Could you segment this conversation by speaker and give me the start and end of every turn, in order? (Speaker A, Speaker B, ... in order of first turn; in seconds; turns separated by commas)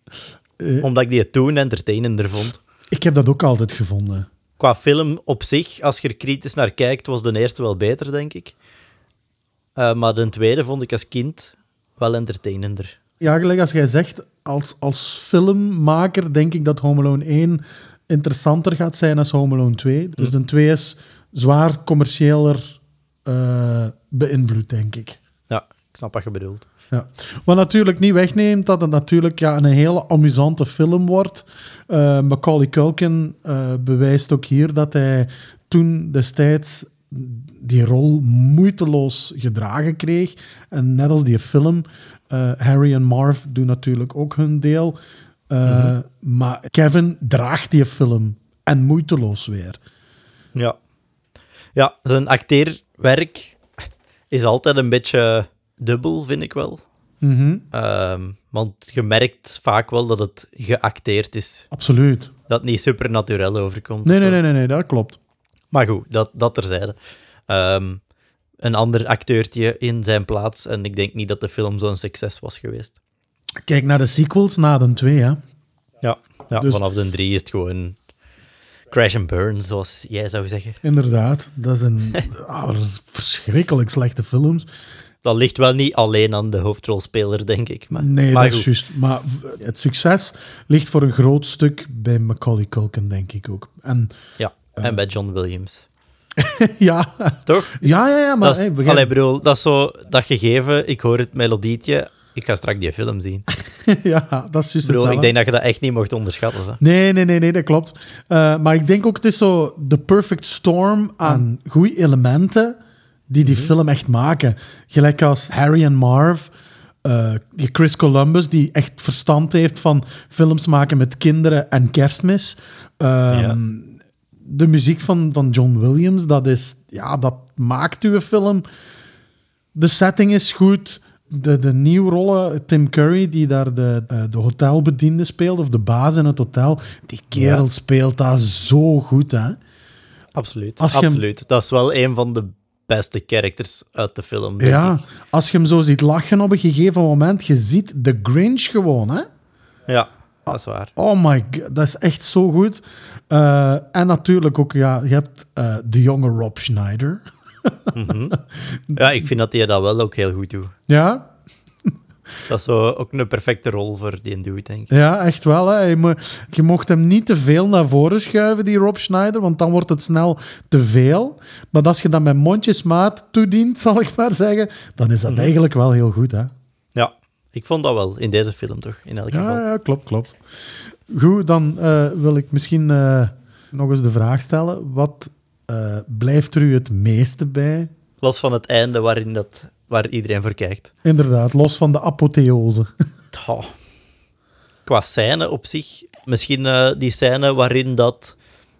Speaker A: 0.6-0.9, Speaker B: 0.8-2.6, Speaker A: 2.9-4.3, Speaker B: 4.6-8.5, Speaker B: 9.8-12.9, Speaker A: 13.2-25.2, Speaker B: 25.5-26.7, Speaker A: 26.9-45.0, Speaker A: 45.5-49.8, Speaker B: 45.6-45.9, Speaker B: 51.7-56.8, Speaker A: 57.2-57.6, Speaker B: 57.7-61.6, Speaker A: 61.7-62.3, Speaker B: 62.5-64.4, Speaker A: 64.0-65.2, Speaker B: 65.7-67.0, Speaker B: 67.5-68.0, Speaker B: 68.6-73.0, Speaker A: 73.7-75.4, Speaker B: 76.0-78.0, Speaker A: 76.5-76.8, Speaker B: 78.9-80.8, Speaker A: 80.8-84.7, Speaker B: 85.2-88.7, Speaker A: 87.9-94.1, Speaker B: 94.4-95.8, Speaker A: 96.4-99.1, Speaker B: 97.5-97.8, Speaker B: 98.4-103.4, Speaker A: 103.7-105.3, Speaker B: 104.8-106.8, Speaker A: 106.8-112.8, Speaker A: 113.3-116.5, Speaker B: 113.4-113.7, Speaker A: 117.0-128.6, Speaker B: 123.3-123.6, Speaker A: 129.7-139.6, Speaker B: 137.3-137.6, Speaker B: 140.3-145.0, Speaker A: 140.8-141.2, Speaker A: 144.6-149.3, Speaker B: 149.9-150.9, Speaker A: 150.5-157.8, Speaker B: 157.9-158.3, Speaker A: 158.3-159.2, Speaker B: 158.9-160.7, Speaker A: 160.9-161.3, Speaker B: 162.5-164.9, Speaker A: 164.9-176.5, Speaker B: 175.3-175.5, Speaker B: 176.9-179.6, Speaker A: 179.3-180.4, Speaker A: 181.1-187.9, Speaker B: 188.2-190.9, Speaker A: 191.0-192.9, Speaker B: 193.3-193.7, Speaker B: 194.8-198.3